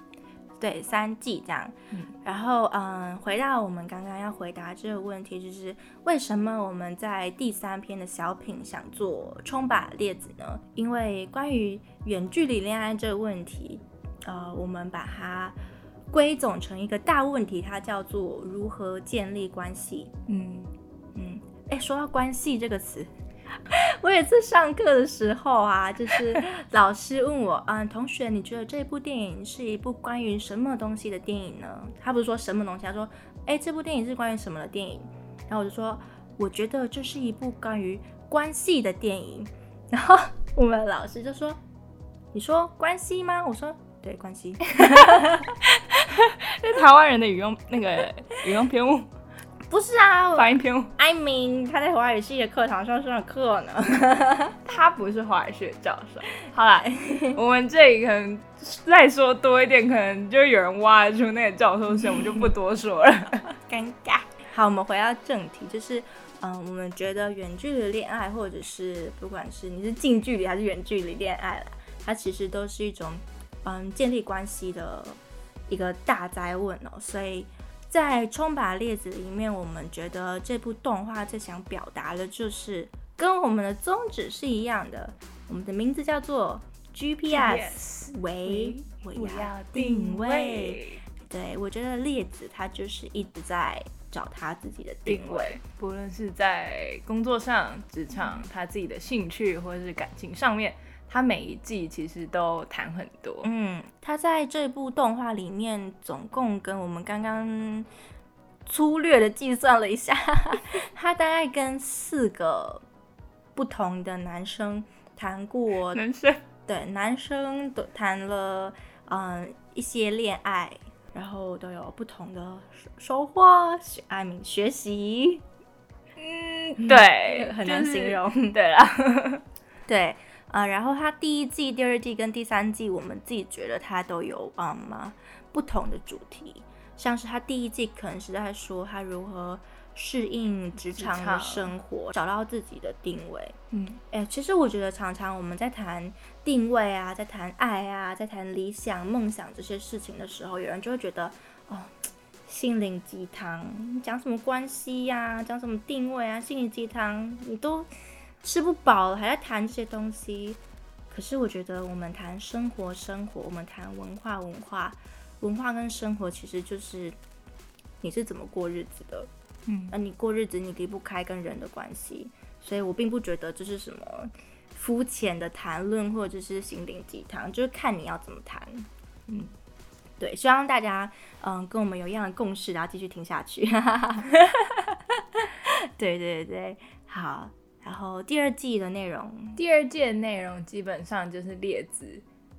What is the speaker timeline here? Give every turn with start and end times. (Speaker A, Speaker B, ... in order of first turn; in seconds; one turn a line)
Speaker A: 0.6-15.6
Speaker A: 16.1-20.1
Speaker B: 20.3-20.7
Speaker A: 21.1-23.1
Speaker A: 23.6-41.6
Speaker A: 42.3-45.6
Speaker B: 44.8-49.1
Speaker A: 49.7-54.6
Speaker B: 50.3-50.9
Speaker B: 54.6-63.5
Speaker A: 56.8-57.4
Speaker A: 63.6-95.6
Speaker B: 87.3-91.0
Speaker B: 95.0-103.5
Speaker A: 103.4-107.9
Speaker A: 108.7-112.8
Speaker A: 113.5-116.0
Speaker B: 115.9-116.4
Speaker A: 116.7-125.4
Speaker B: 126.2-129.4
Speaker A: 126.8-128.6
Speaker A: 129.9-143.6
Speaker B: 140.8-141.7
Speaker B: 143.7-144.0
Speaker A: 144.1-151.9
Speaker A: 152.4-157.9
Speaker A: 158.4-160.6
Speaker A: 161.1-167.2
Speaker A: 168.0-169.3
Speaker B: 169.7-169.9
Speaker A: 169.9-178.9
Speaker A: 180.2-184.3
Speaker A: 185.4-189.6
Speaker B: 189.6-192.2